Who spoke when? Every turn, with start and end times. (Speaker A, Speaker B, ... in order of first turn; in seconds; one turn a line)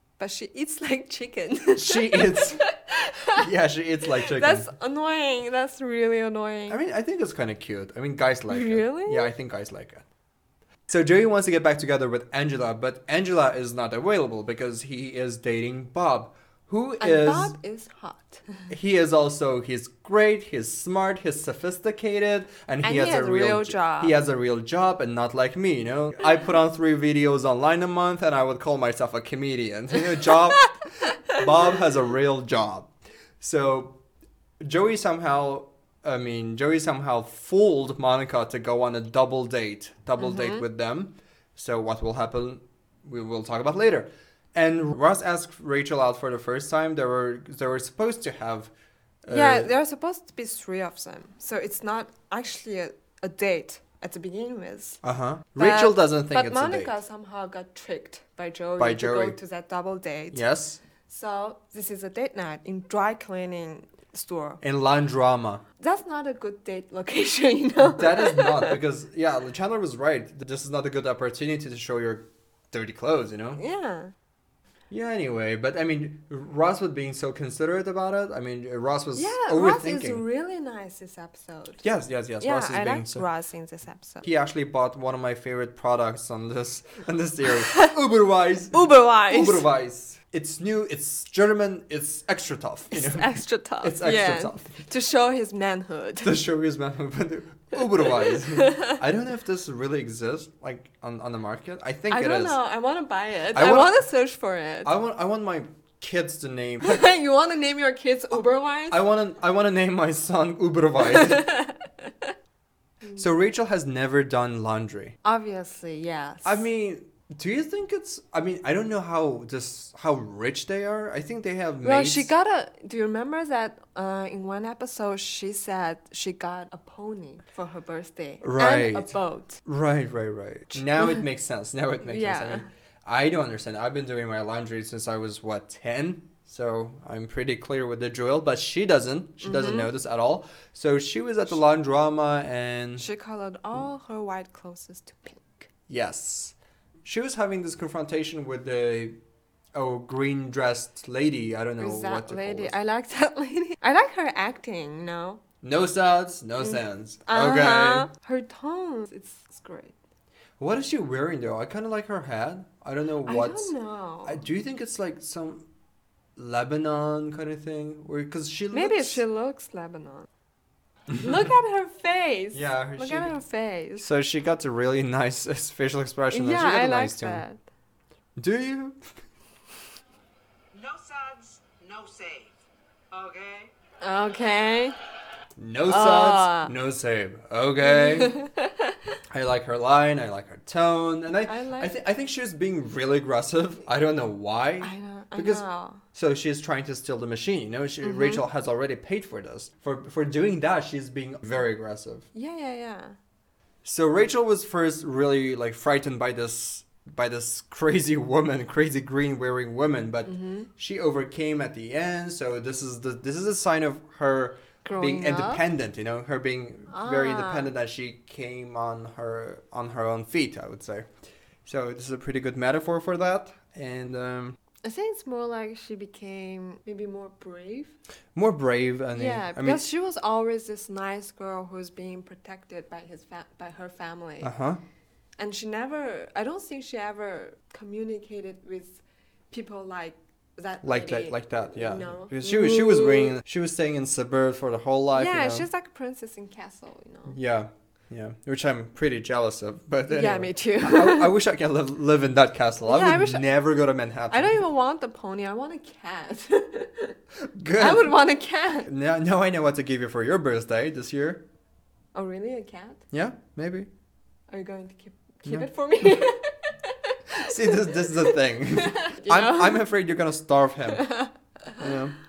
Speaker A: 0.2-3.5
Speaker B: 1.8-2.6
Speaker B: 3.3-4.7
Speaker A: 4.1-6.8
Speaker B: 6.7-10.0
Speaker A: 8.5-9.3
Speaker B: 10.9-17.5
Speaker A: 17.0-18.7
Speaker B: 18.7-34.0
Speaker A: 22.8-24.2
Speaker A: 30.2-30.4
Speaker B: 34.6-48.7
Speaker A: 40.2-40.6
Speaker B: 49.2-49.7
Speaker A: 49.3-55.0
Speaker B: 55.0-57.0
Speaker A: 55.5-60.4
Speaker B: 58.8-59.4
Speaker B: 60.3-60.8
Speaker A: 61.0-64.6
Speaker B: 64.6-65.6
Speaker A: 65.8-68.8
Speaker B: 67.8-73.6
Speaker A: 73.6-74.1
Speaker B: 74.9-80.2
Speaker A: 79.2-81.8
Speaker B: 81.8-83.2
Speaker A: 82.4-84.2
Speaker B: 84.2-94.8
Speaker A: 87.6-87.9
Speaker A: 88.7-89.6
Speaker A: 92.9-96.4
Speaker B: 96.2-102.6
Speaker A: 97.8-99.0
Speaker A: 102.1-104.9
Speaker B: 103.5-104.0
Speaker B: 104.8-107.0
Speaker A: 106.8-109.0
Speaker B: 108.9-111.5
Speaker A: 111.0-112.3
Speaker B: 113.1-115.2
Speaker A: 115.2-116.7
Speaker B: 116.4-122.3
Speaker A: 121.8-129.6
Speaker B: 128.4-143.1
Speaker A: 130.7-131.2
Speaker A: 132.0-132.7
Speaker A: 139.4-139.9
Speaker A: 143.0-145.7
Speaker B: 145.9-149.2
Speaker B: 149.7-152.7
Speaker A: 151.8-155.4
Speaker B: 155.6-158.1
Speaker A: 156.6-160.0
Speaker B: 160.6-163.7
Speaker A: 163.2-164.4
Speaker B: 164.2-165.7
Speaker B: 166.3-169.2
Speaker A: 168.7-170.3
Speaker A: 171.2-174.1
Speaker B: 172.5-173.3
Speaker B: 174.0-177.4
Speaker A: 176.3-177.6
Speaker B: 178.4-179.0
Speaker C: 180.7-182.6
Speaker C: 183.1-183.7
Speaker A: 184.0-184.9
Speaker B: 185.6-188.4
Speaker A: 185.9-186.7
Speaker A: 187.8-189.0
Speaker B: 189.3-202.3
Speaker A: 191.4-191.9
Speaker A: 194.8-196.0
Speaker A: 198.0-198.4
Speaker A: 202.3-203.2
Speaker B: 203.8-221.1
Speaker A: 210.2-210.7
Speaker A: 214.8-215.6
Speaker A: 216.9-217.7
Speaker B: 221.6-224.6
Speaker A: 224.8-227.9
Speaker B: 228.3-229.8
Speaker A: 229.1-234.5
Speaker B: 234.4-234.8
Speaker A: 235.4-243.3
Speaker B: 240.8-245.7
Speaker A: 245.1-247.4
Speaker B: 247.3-254.6
Speaker A: 250.1-251.3
Speaker A: 252.8-253.4
Speaker A: 254.3-257.2
Speaker B: 257.4-258.2
Speaker A: 257.8-258.9
Speaker B: 258.8-261.4
Speaker A: 262.1-263.0
Speaker B: 263.1-263.9
Speaker A: 264.5-269.9
Speaker B: 267.3-271.1
Speaker A: 270.9-272.0
Speaker B: 271.8-272.2